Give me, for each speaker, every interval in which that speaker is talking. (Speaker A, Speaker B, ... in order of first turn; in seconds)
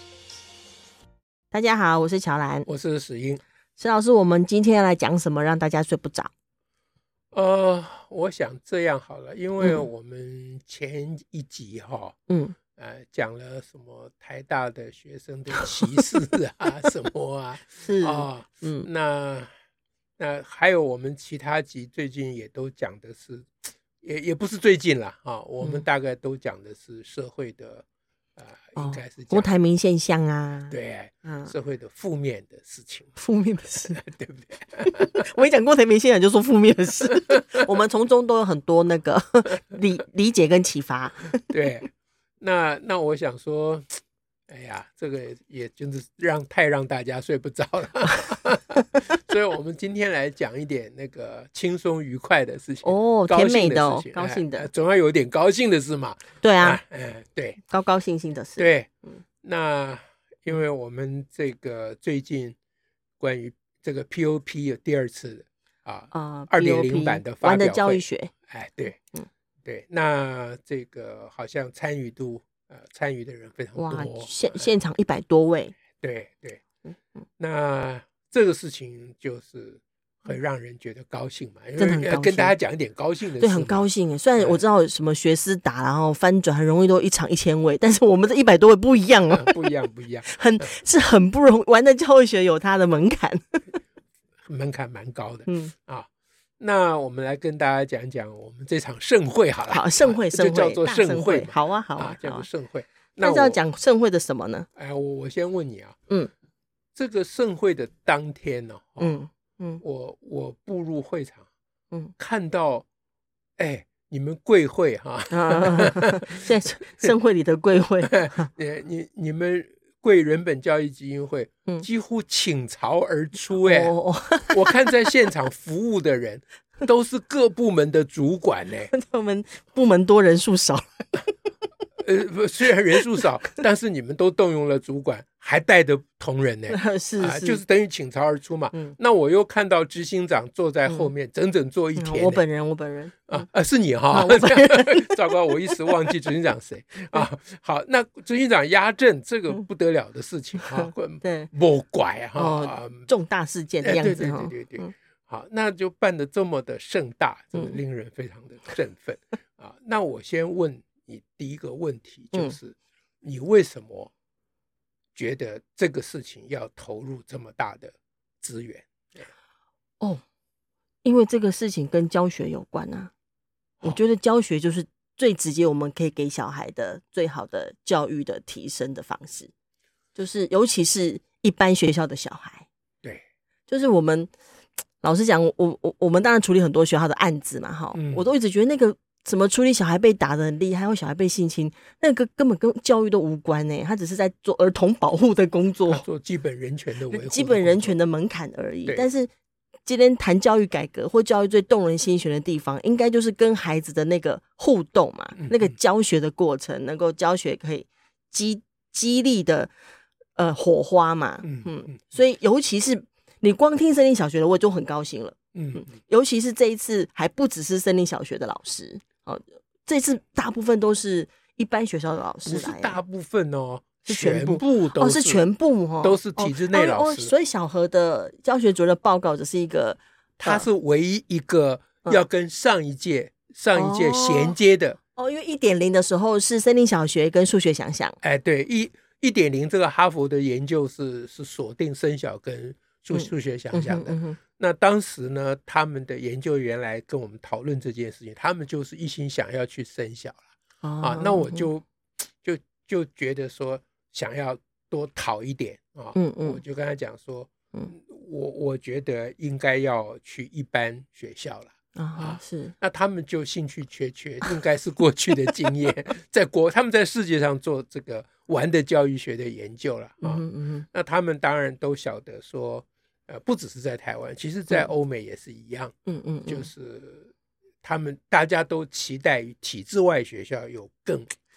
Speaker A: 1.5-2.7, 3.8-6.3, 9.6-9.8, 12.3-12.5, 17.7-18.9, 28.8-31.5, 33.2-34.0, 34.8-41.5, 52.8-54.7, 56.4-56.8, 57.7-59.2, 66.1-68.3, 73.8-75.7, 81.8-82.5, 83.4-89.6, 90.2-93.8, 95.5-95.7, 99.7-102.5, 103.2-104.7, 109.0-109.8, 115.3-118.5, 123.6-124.8, 128.9-131.3, 136.7-137.6, 142.0-143.4, 144.1-145.8, 150.6-151.5, 152.4-154.9, 171.0-173.1, 173.8-179.5, 180.2-182.7, 183.7-184.3, 185.0-196.0, 197.1-199.3, 199.8-209.7, 210.3-223.0, 224.1-230.7, 233.7-234.6, 235.2-238.2, 243.1-244.4, 250.8-251.7, 256.1-256.6, 261.9-262.7, 270.2-270.9, 276.1-276.7
Speaker B: 2.6-3.4, 7.3-12.2, 12.8-19.5, 20.2-27.8, 28.4-29.5, 30.7-33.1, 33.9-35.2, 41.5-41.9, 42.4-57.6, 58.6-58.9, 59.4-62.5, 63.2-69.0, 69.6-74.7, 76.0-76.6, 77.4-83.8, 84.4-84.6, 89.3-90.7, 94.5-96.1, 96.6-103.6, 104.8-106.0, 107.0-109.2, 109.8-111.5, 112.2-112.8, 113.6-116.3, 118.0-123.9, 124.5-128.9, 132.0-142.4, 143.3-153.1, 153.8-164.1, 165.1-169.2, 187.9-188.3, 195.9-197.9, 205.4-205.7, 211.4-212.0, 215.5-215.9, 222.4-225.5, 226.0-227.3, 230.4-235.0, 238.2-250.4, 251.0-251.8, 252.4-275.9, 276.5-277.3, 277.8-281.3